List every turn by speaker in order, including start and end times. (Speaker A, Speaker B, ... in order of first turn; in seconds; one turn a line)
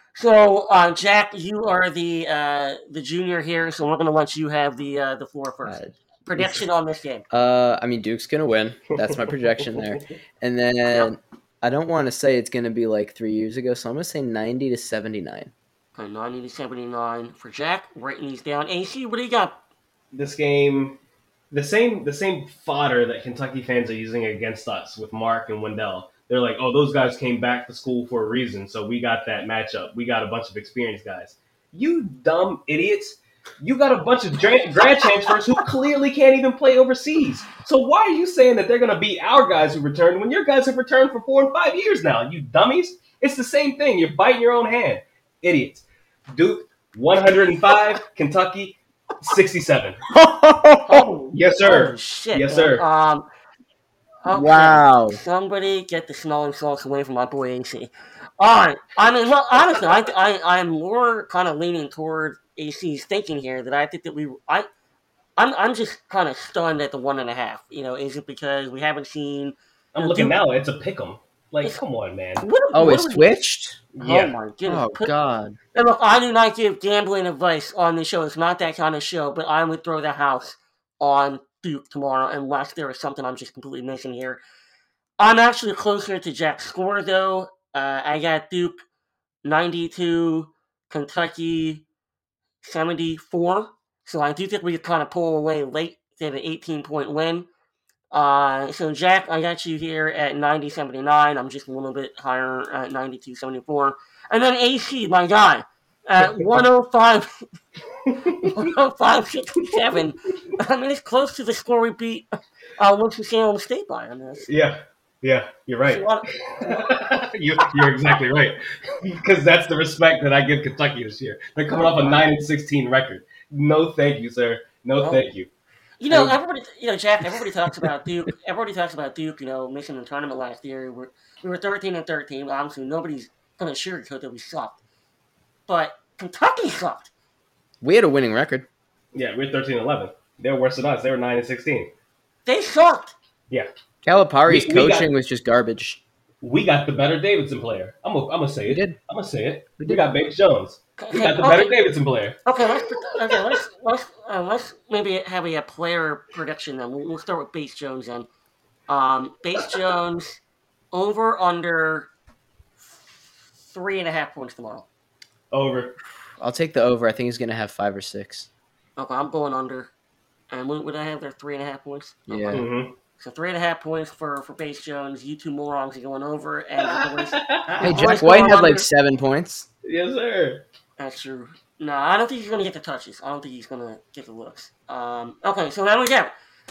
Speaker A: 0.1-7.2
Speaker B: 5.6-6.6
Speaker B: 7.3-15.5
Speaker C: 9.3-10.0
Speaker A: 16.0-19.6
Speaker C: 20.1-21.0
Speaker C: 21.5-50.0
Speaker B: 50.1-51.1
Speaker A: 50.8-53.2
Speaker C: 51.3-52.8
Speaker A: 54.2-64.7
Speaker B: 54.3-55.2
Speaker A: 65.4-70.4
Speaker C: 69.9-72.4
Speaker A: 72.4-73.3
Speaker B: 72.7-73.8
Speaker C: 73.9-74.3
Speaker A: 74.0-75.1
Speaker B: 74.7-75.5
Speaker A: 75.7-84.4
Speaker A: 85.2-88.8
Speaker A: 89.4-91.8
Speaker A: 92.6-97.5
Speaker A: 98.1-107.4
Speaker C: 106.2-106.5
Speaker C: 108.1-108.6
Speaker A: 108.4-114.5
Speaker C: 114.5-125.5
Speaker A: 115.8-116.2
Speaker A: 121.7-122.1
Speaker A: 126.0-134.8
Speaker A: 135.7-137.1
Speaker B: 137.8-138.7
Speaker C: 139.1-141.9
Speaker A: 142.4-143.1
Speaker B: 144.0-146.0
Speaker C: 144.5-145.1
Speaker C: 146.4-152.6
Speaker B: 148.7-149.0
Speaker A: 151.0-151.7
Speaker A: 152.4-158.3
Speaker C: 153.1-153.5
Speaker A: 158.9-160.4
Speaker A: 160.9-162.1
Speaker A: 162.8-164.9
Speaker C: 165.5-165.9
Speaker B: 166.4-168.5
Speaker A: 169.0-169.9
Speaker A: 170.5-178.9
Speaker B: 172.3-172.7
Speaker C: 172.5-172.9
Speaker C: 176.8-177.9
Speaker B: 177.8-179.7
Speaker C: 179.8-180.6
Speaker A: 181.0-186.3